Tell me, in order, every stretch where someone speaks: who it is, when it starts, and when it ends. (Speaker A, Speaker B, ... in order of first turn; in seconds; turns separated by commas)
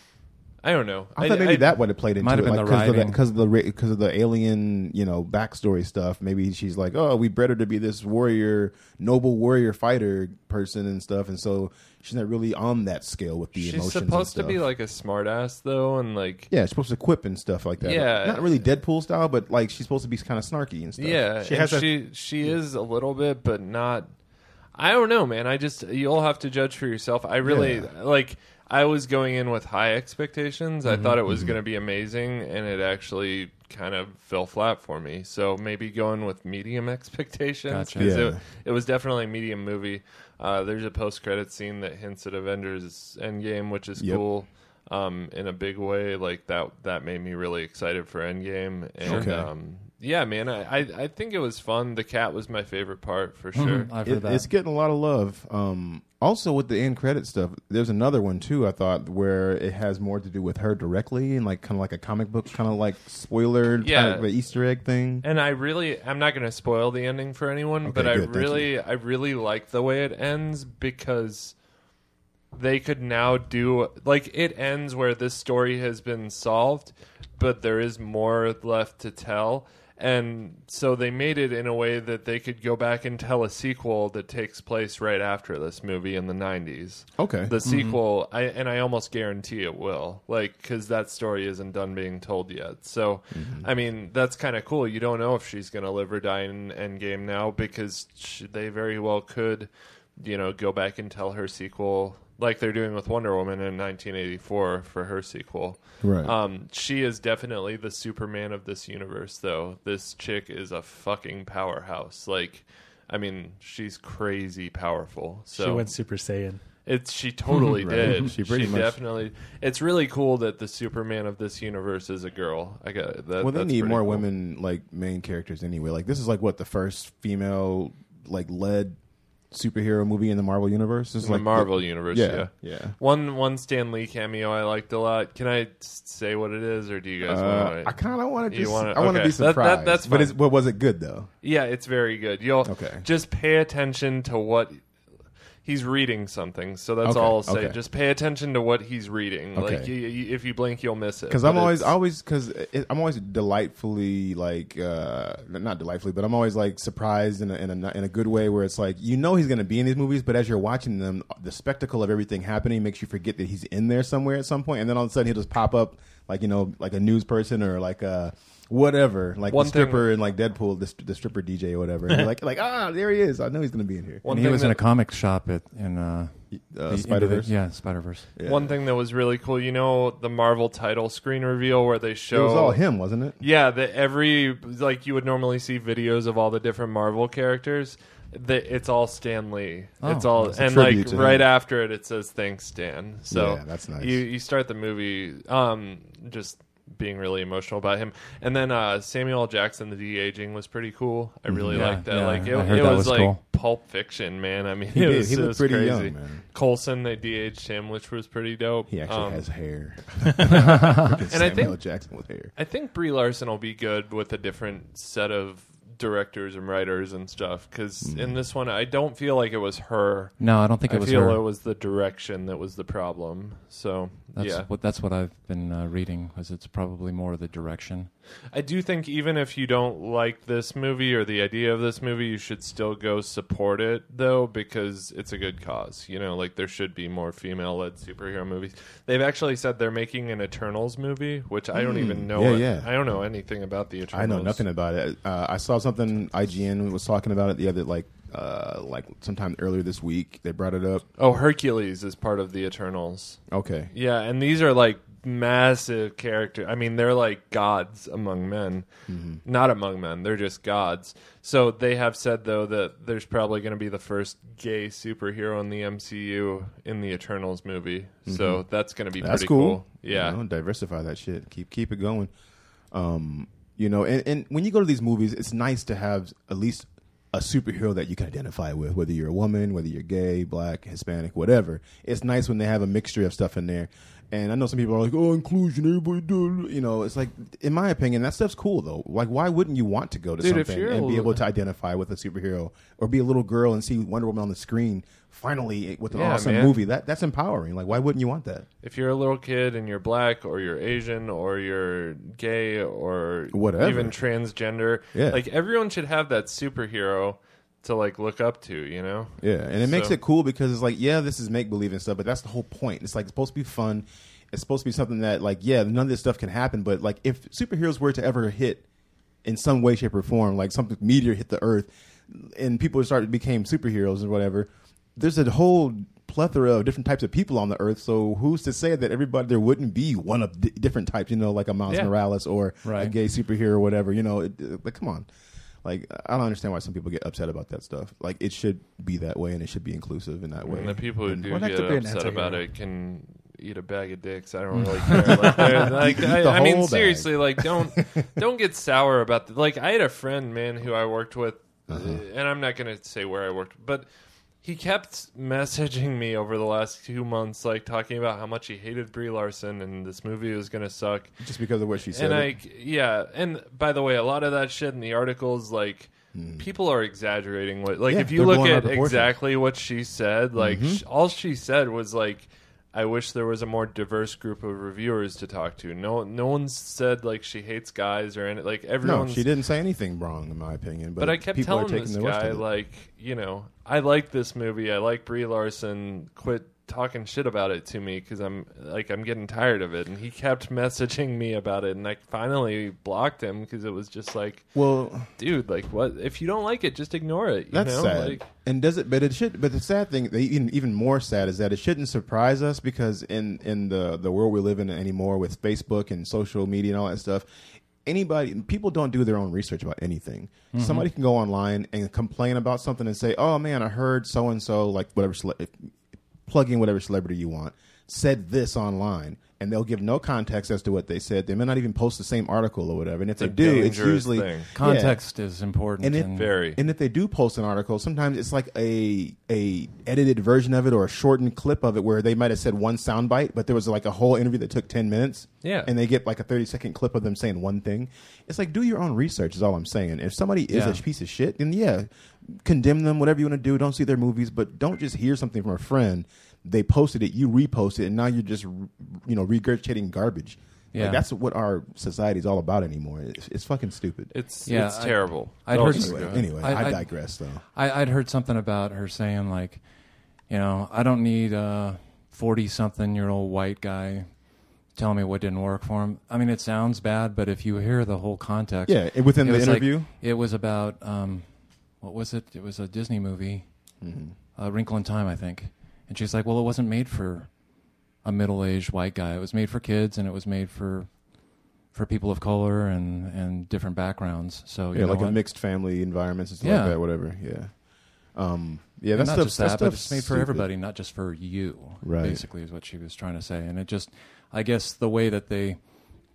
Speaker A: 0.6-1.8, Speaker B: 1.1-14.6, Speaker C: 2.2-3.2, Speaker A: 13.5-16.5, Speaker B: 16.5-21.8, Speaker A: 17.8-18.6, Speaker A: 21.0-24.1, Speaker D: 21.4-21.9, Speaker A: 24.7-53.9, Speaker B: 27.4-27.9, Speaker B: 30.9-31.6, Speaker C: 37.7-38.1, Speaker B: 38.0-38.4, Speaker B: 44.0-44.2, Speaker B: 49.0-49.5, Speaker C: 49.0-49.3, Speaker C: 53.5-54.5, Speaker B: 54.0-65.2, Speaker A: 63.8-64.3, Speaker A: 65.2-71.5, Speaker B: 67.8-68.7, Speaker A: 72.5-115.9, Speaker B: 87.2-87.5, Speaker C: 87.6-88.0, Speaker B: 93.3-93.7, Speaker B: 106.0-106.3, Speaker D: 115.5-116.6, Speaker A: 116.8-124.2, Speaker B: 117.8-119.0, Speaker B: 123.4-129.0, Speaker B: 129.5-133.0, Speaker A: 131.2-140.3, Speaker B: 137.2-141.3, Speaker A: 141.4-144.8, Speaker B: 142.6-143.1, Speaker A: 145.6-151.9, Speaker B: 147.0-147.8, Speaker B: 149.5-149.9, Speaker B: 151.3-174.2, Speaker A: 169.5-170.1, Speaker A: 174.2-174.8, Speaker C: 174.2-178.3, Speaker B: 176.5-177.5, Speaker B: 178.3-178.8, Speaker A: 178.4-182.8, Speaker B: 182.3-183.4, Speaker A: 183.4-209.4, Speaker C: 190.0-190.3, Speaker B: 190.4-191.5, Speaker B: 193.3-194.2, Speaker B: 201.5-202.0, Speaker C: 201.7-203.4, Speaker B: 204.9-206.4, Speaker B: 208.9-212.5, Speaker A: 210.4-212.0, Speaker A: 212.5-224.7, Speaker B: 218.0-218.4, Speaker C: 220.4-221.4, Speaker C: 224.3-228.1, Speaker A: 228.5-244.6, Speaker B: 241.7-242.9, Speaker B: 244.1-251.0, Speaker A: 251.2-253.4, Speaker B: 253.5-253.9, Speaker A: 253.9-258.9, Speaker B: 259.1-259.4, Speaker A: 259.4-270.4, Speaker B: 268.3-268.6, Speaker B: 269.2-272.3, Speaker B: 272.9-298.7, Speaker A: 290.4-291.4, Speaker A: 296.1-296.8, Speaker A: 298.8-310.1, Speaker B: 303.5-304.2, Speaker B: 305.1-305.4, Speaker B: 309.4-318.8, Speaker B: 319.4-335.3, Speaker C: 332.8-333.1, Speaker B: 335.8-342.4, Speaker A: 340.6-354.1, Speaker D: 341.5-342.6, Speaker C: 344.8-345.6, Speaker B: 345.3-348.2, Speaker B: 351.9-352.2, Speaker A: 354.6-361.4, Speaker B: 361.4-362.5, Speaker A: 362.1-379.4, Speaker B: 366.3-366.6, Speaker B: 368.1-369.3, Speaker B: 370.6-371.0, Speaker B: 379.0-382.6, Speaker A: 381.2-394.7, Speaker B: 394.7-395.3, Speaker A: 395.4-398.4, Speaker B: 397.7-407.4, Speaker B: 408.0-415.9, Speaker C: 410.7-411.1, Speaker B: 416.4-425.2, Speaker A: 423.4-424.7, Speaker C: 424.7-426.5, Speaker B: 426.0-454.3, Speaker A: 426.3-426.8, Speaker A: 435.6-435.9, Speaker C: 440.7-441.0, Speaker C: 450.9-451.2, Speaker A: 454.3-456.5, Speaker C: 454.6-459.8, Speaker B: 455.7-457.6, Speaker C: 460.5-464.4, Speaker C: 464.9-473.7, Speaker B: 468.9-470.1, Speaker B: 474.0-474.3, Speaker C: 474.6-477.6, Speaker C: 478.2-481.2, Speaker C: 481.9-485.4, Speaker B: 484.9-487.8, Speaker C: 486.6-487.0, Speaker B: 488.3-490.7, Speaker C: 489.1-495.8, Speaker B: 492.0-492.4